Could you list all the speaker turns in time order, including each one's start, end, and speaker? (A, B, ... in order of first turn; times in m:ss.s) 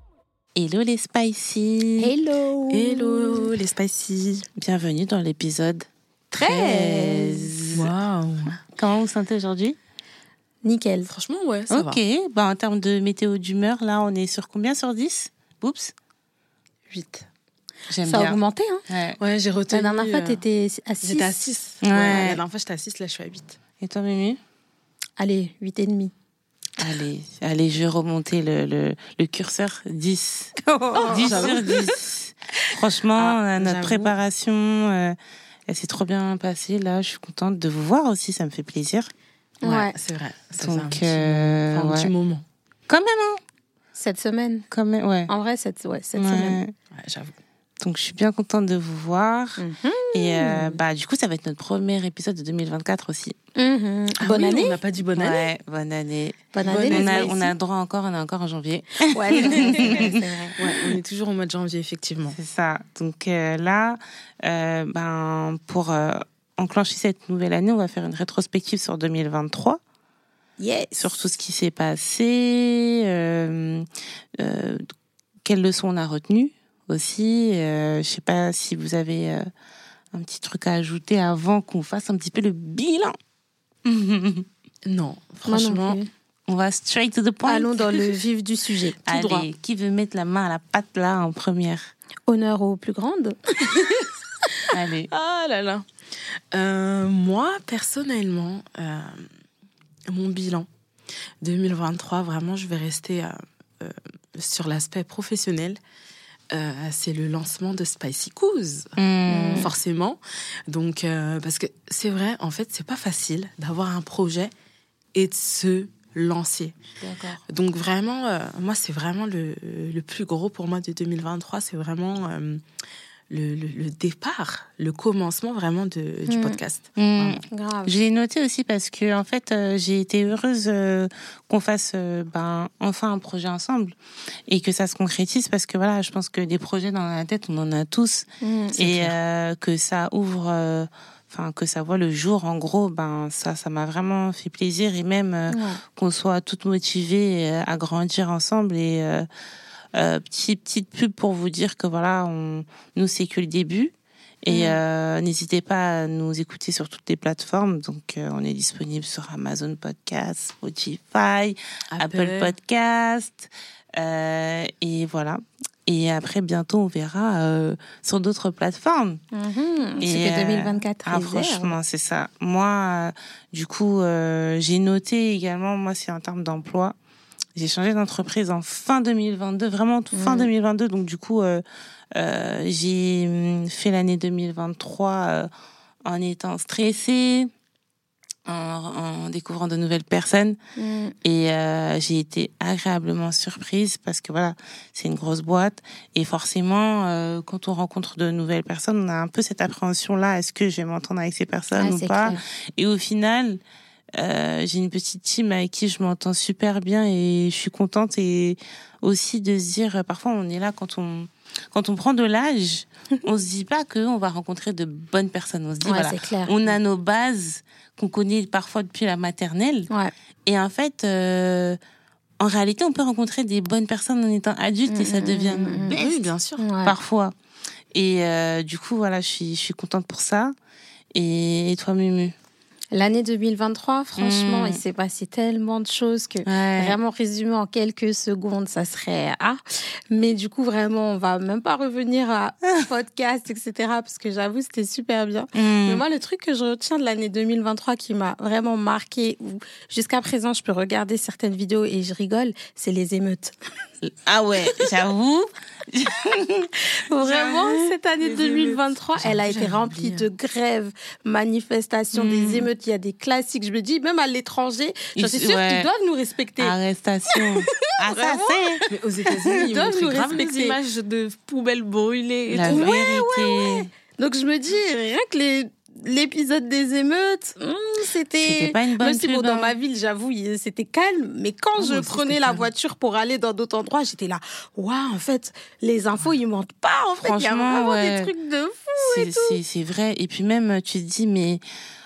0:00.6-0:02.1 A
0:02.0-0:03.5 B
0:02.7-0:04.5 C
0:04.6-0:05.9 A
0:06.3-0:07.5 B
0:06.4-0:07.9 A
0:07.7-0:08.6 C
0:08.8-0:09.8 A
0:10.6-0:11.1 B
0:11.1-0:12.0 C
0:11.7-0:15.9 A
0:16.9-0:17.3 B
0:17.9-0:19.2 A
0:18.1-0:18.8 B
0:19.2-0:20.4 C
0:19.7-0:21.4 B
0:21.0-0:23.6 C
0:21.8-0:22.4 A
0:23.8-0:24.4 A
0:25.2-0:26.1 B
0:26.8-0:35.2 A
0:30.6-0:32.0 B
0:31.1-0:31.7 C
0:33.2-0:34.2 C
0:35.7-0:39.1 A
0:39.6-0:39.9 B
0:39.6-0:42.4 C
0:40.6-0:42.1 A
0:42.9-0:43.4 A
0:44.0-0:44.7 B
0:44.7-0:45.3 A
0:45.3-0:46.6 B
0:46.2-0:46.7 A
0:46.9-0:47.3 C
0:47.8-0:49.6 A
0:49.6-0:50.8 B
0:50.1-0:53.4 A
0:53.6-0:54.8 B
0:54.2-0:55.5 C
0:55.2-1:00.2 A
0:56.5-0:57.4 B
0:56.6-0:57.5 C
0:59.0-1:00.6 B
0:59.8-1:02.4 C
1:02.4-1:09.8 A
1:10.6-1:11.1 B
1:11.0-1:13.9 A
1:14.4-1:14.9 A
1:15.4-1:19.5 A
1:20.1-1:23.2 A
1:23.8-1:24.5 A
1:24.9-1:26.0 C
1:25.5-1:26.1 B
1:26.5-1:28.2 A
1:27.5-1:29.0 B
1:29.1-1:31.9 A
1:29.1-1:29.5 C
1:32.3-1:34.1 B
1:34.7-1:35.1 A
1:35.1-1:35.9 C
1:36.5-1:39.3 C
1:40.1-1:40.7 C
1:41.4-1:45.8 C
1:46.5-1:49.0 C
1:49.0-1:49.7 A
1:49.3-1:49.7 B
1:49.6-1:54.5 C
1:55.2-1:56.8 C
1:57.0-1:57.4 A
1:57.5-2:02.6 C
2:03.3-2:07.4 C
2:06.3-2:06.6 B
2:07.0-2:14.0 A
2:07.5-2:08.0 B
2:14.5-2:18.3 A
2:18.4-2:18.9 B
2:18.8-2:29.3 A
2:18.9-2:19.2 C
2:25.5-2:25.8 B
2:30.0-2:33.9 A
2:34.4-2:49.2 A
2:34.5-2:34.8 B
2:41.9-2:42.5 C
2:49.3-2:51.8 B
2:50.0-2:57.0 A
2:57.6-3:01.6 A
3:00.1-3:00.5 B
3:02.2-3:05.5 A
3:06.0-3:07.5 A
3:08.5-3:10.6 A
3:10.8-3:11.2 B
3:11.2-3:23.6 A
3:21.8-3:22.4 B
3:24.2-3:39.9 A
3:35.8-3:36.5 B
3:40.5-3:41.8 A
3:42.4-3:46.2 A
3:44.9-3:46.0 B
3:45.9-3:46.6 C
3:46.6-3:47.0 B
3:46.8-3:47.3 A
3:47.9-3:50.5 A
3:51.1-3:52.3 A
3:52.9-4:13.6 B
3:54.2-3:54.8 A
3:56.5-3:57.0 A
4:05.6-4:06.0 A
4:14.1-4:17.9 A
4:16.9-4:26.7 B
4:18.2-4:20.3 C
4:22.1-4:22.7 A
4:25.2-4:25.9 A
4:26.6-4:28.8 A
4:27.3-4:30.8 B
4:28.9-4:32.9 C
4:32.5-4:33.9 A
4:32.7-4:49.6 B
4:38.4-4:39.7 A
4:41.8-4:42.7 C
4:47.2-4:48.3 A
4:49.0-4:51.6 A